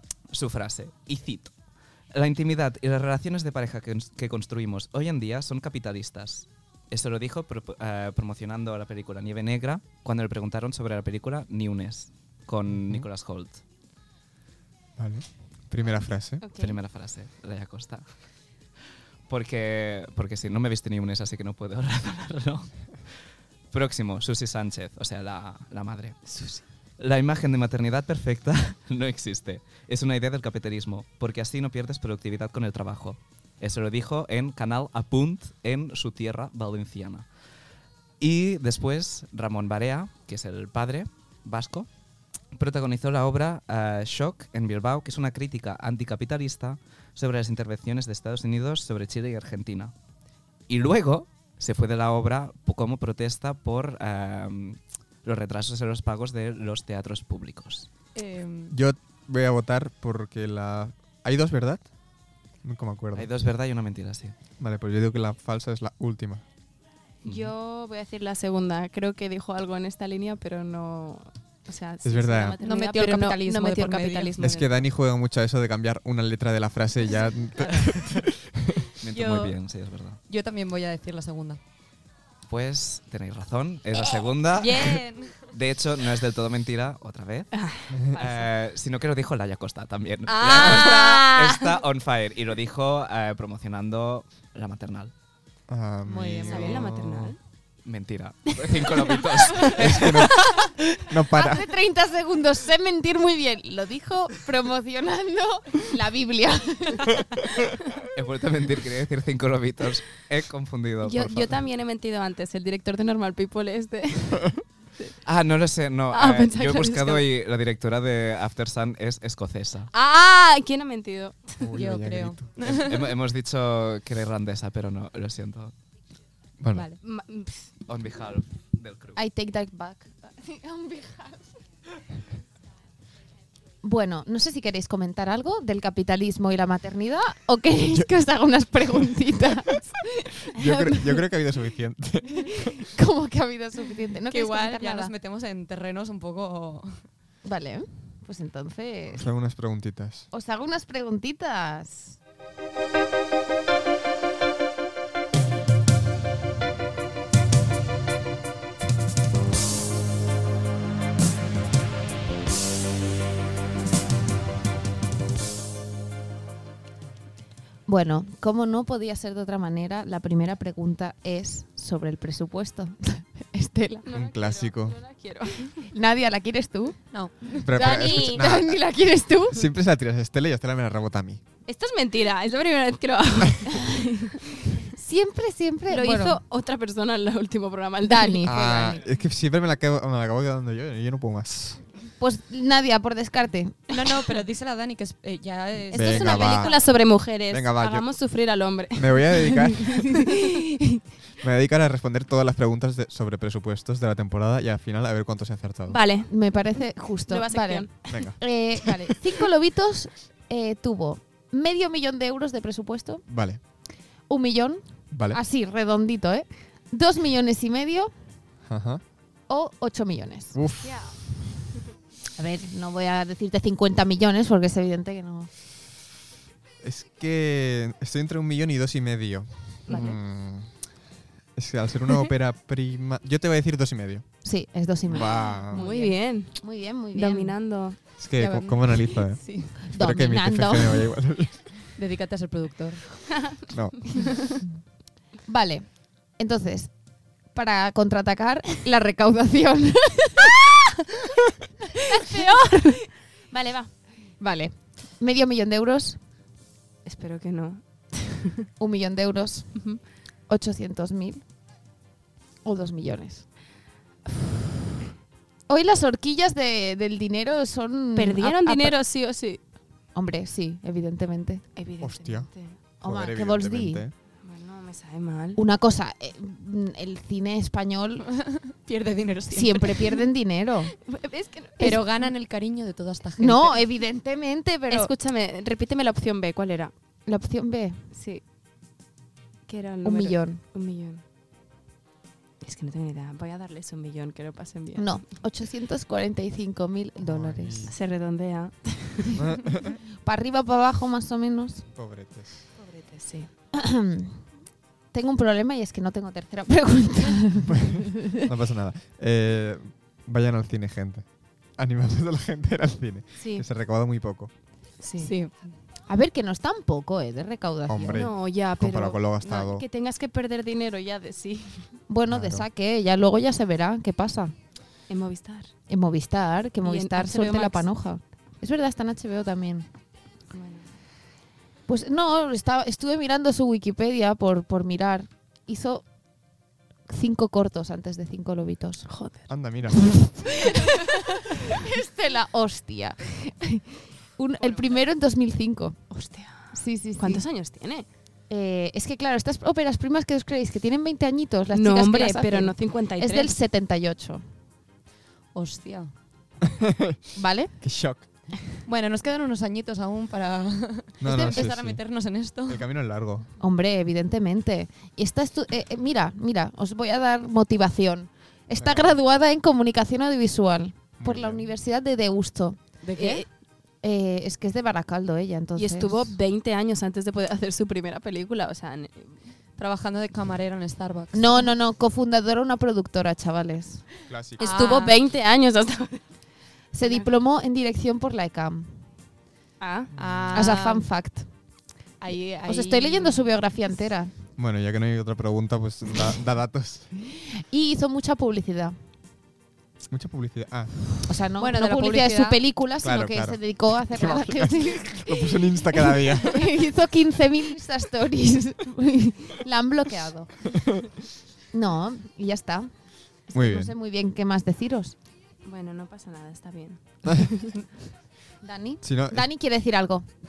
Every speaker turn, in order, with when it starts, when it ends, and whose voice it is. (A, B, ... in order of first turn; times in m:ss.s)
0:00.3-0:01.5 A
0:02.1-0:13.6 A
0:12.7-0:13.1 B
0:15.0-0:16.5 B
0:16.4-0:16.8 C
0:16.5-0:18.0 A
0:19.3-0:23.0 A
0:23.7-0:26.3 A
0:26.2-0:26.6 C
0:27.0-0:37.3 A
0:38.2-0:41.9 A
0:42.5-0:49.9 A
0:50.7-0:57.9 A
0:58.2-0:58.8 D
0:58.7-1:01.9 B
1:02.6-1:03.3 B
1:03.1-1:04.4 A
1:04.6-1:06.4 B
1:07.2-1:14.8 C
1:07.2-1:07.5 A
1:12.0-1:12.6 B
1:12.6-1:14.4 D
1:14.4-1:18.9 B
1:19.0-1:20.2 A
1:19.1-1:19.6 D
1:20.3-1:21.6 D
1:22.5-1:35.1 A
1:24.5-1:25.4 D
1:27.5-1:28.4 C
1:27.9-1:28.2 B
1:30.3-1:31.3 D
1:30.5-1:30.9 C
1:35.7-1:37.4 B
1:36.0-1:36.7 D
1:36.4-1:37.4 C
1:37.8-1:40.3 A
1:38.5-1:39.8 C
1:39.7-1:41.7 B
1:40.3-1:40.6 C
1:41.3-1:47.5 E
1:48.1-1:51.5 A
1:51.0-1:55.1 C
1:55.2-1:59.9 A
1:56.1-1:57.2 C
1:59.9-2:01.7 C
2:01.6-2:02.5 B
2:01.7-2:03.1 D
2:02.6-2:05.7 A
2:06.6-2:06.9 B
2:07.0-2:07.7 C
2:07.8-2:09.2 A
2:09.2-2:11.6 E
2:13.8-2:20.5 E
2:20.5-2:22.7 B
2:20.7-2:21.1 C
2:22.4-2:25.1 E
2:24.3-2:27.1 D
2:27.4-2:29.3 E
2:29.1-2:30.3 B
2:30.3-2:32.2 E
2:47.9-2:54.0 E
2:54.0-2:55.9 C
2:54.1-2:55.0 B
2:55.9-2:59.6 E
2:57.1-2:57.9 D
2:57.6-2:58.8 B
2:57.8-2:58.5 C
2:59.5-3:01.4 B
3:01.6-3:04.9 C
3:05.0-3:06.4 E
3:05.9-3:08.6 C
3:08.0-3:09.0 E
3:08.4-3:11.9 B
3:12.2-3:13.9 E
3:13.9-3:16.7 D
3:15.9-3:20.9 C
3:15.9-3:18.2 B
3:18.9-3:20.2 B
3:21.4-3:26.0 B
3:25.9-3:26.3 C
3:26.3-3:33.2 E
3:27.2-3:28.3 C
3:28.1-3:29.1 B
3:33.3-3:33.6 B
3:34.3-3:38.1 E
3:35.1-3:35.4 B
3:38.6-3:39.0 B
3:39.5-3:40.6 E
3:40.5-3:41.3 B
3:40.8-3:41.2 C
3:42.4-3:45.5 E
3:46.8-3:50.9 B
3:49.9-3:50.2 E
3:49.9-3:50.2 C
3:51.5-3:54.3 B
3:54.4-3:57.6 E
3:55.1-3:55.8 B
3:55.2-3:58.1 C
3:55.8-3:56.1 D
3:58.2-4:01.6 B
3:58.4-3:59.7 D
3:59.9-4:01.1 E
4:02.0-4:03.2 D
4:03.5-4:04.6 C
4:03.7-4:04.1 B
4:05.4-4:07.0 E
4:07.5-4:10.8 E
4:11.9-4:12.8 E
4:12.1-4:13.9 C
4:14.4-4:16.2 E
4:17.0-4:18.7 C
4:18.8-4:21.4 E
4:19.7-4:20.0 C
4:22.6-4:23.5 E
4:25.7-4:29.0 E
4:28.1-4:29.6 C
4:30.1-4:31.7 E
4:31.8-4:32.8 C
4:32.0-4:34.1 B
4:33.0-4:34.0 E
4:34.4-4:35.6 C
4:35.6-4:38.6 E
4:38.4-4:39.9 D
4:39.5-4:41.0 E
4:41.0-4:42.3 C
4:41.8-4:43.8 D
4:43.4-4:45.1 E
4:44.9-4:46.9 C
4:47.2-4:48.1 E
4:48.1-4:48.4 C
4:49.6-4:51.2 C
4:50.0-4:50.6 E
4:52.6-4:55.3 C
4:55.0-4:57.9 E
4:57.2-4:57.9 B
4:57.9-4:59.4 C
4:59.4-5:00.0 B
5:00.2-5:01.9 E
5:01.9-5:02.6 B
5:02.7-5:03.5 C
5:03.7-5:04.5 E
5:05.1-5:08.4 E
5:07.7-5:14.5 B
5:13.4-5:13.6 C
5:15.0-5:15.4 C
5:15.2-5:15.6 D
5:16.1-5:18.3 E
5:17.9-5:19.8 B
5:18.1-5:22.0 C
5:22.1-5:24.5 E
5:22.3-5:22.6 B
5:25.1-5:25.7 C
5:25.9-5:29.9 E
5:26.8-5:27.9 C
5:30.5-5:30.9 C
5:31.9-5:36.0 E
5:37.1-5:39.1 E
5:39.1-5:41.7 C
5:39.5-5:40.6 B
5:41.5-5:46.1 E
5:44.6-5:44.9 C
5:46.1-5:48.1 C
5:46.7-5:47.4 E
5:48.5-5:54.4 E
5:51.7-5:53.5 C
5:55.5-5:56.1 D
5:56.6-5:57.2 B
5:57.4-5:57.8 E
5:57.8-5:58.3 B
5:58.8-6:02.8 D
6:01.2-6:03.5 B
6:03.6-6:13.5 E
6:08.8-6:09.2 B
6:11.2-6:11.7 B
6:13.0-6:13.4 D
6:13.2-6:13.4 C
6:14.0-6:16.4 E
6:15.7-6:19.4 C
6:19.8-6:21.7 D
6:21.3-6:24.2 E
6:24.3-6:24.8 B
6:24.6-6:26.2 C
6:24.6-6:25.2 D
6:26.9-6:29.1 E
6:27.0-6:27.3 C
6:29.8-6:30.1 C
6:30.2-6:31.0 D
6:30.5-6:31.5 E
6:32.2-6:33.4 D
6:32.6-6:34.3 E
6:34.6-6:37.1 B
6:37.3-6:39.0 E
6:40.1-6:41.1 B
6:41.2-6:50.8 E
6:41.6-6:42.6 D
6:43.0-6:46.7 B
6:51.7-6:55.1 E
6:53.5-6:53.9 B
6:55.6-6:57.8 C
6:58.6-7:00.2 E
6:59.0-6:59.4 B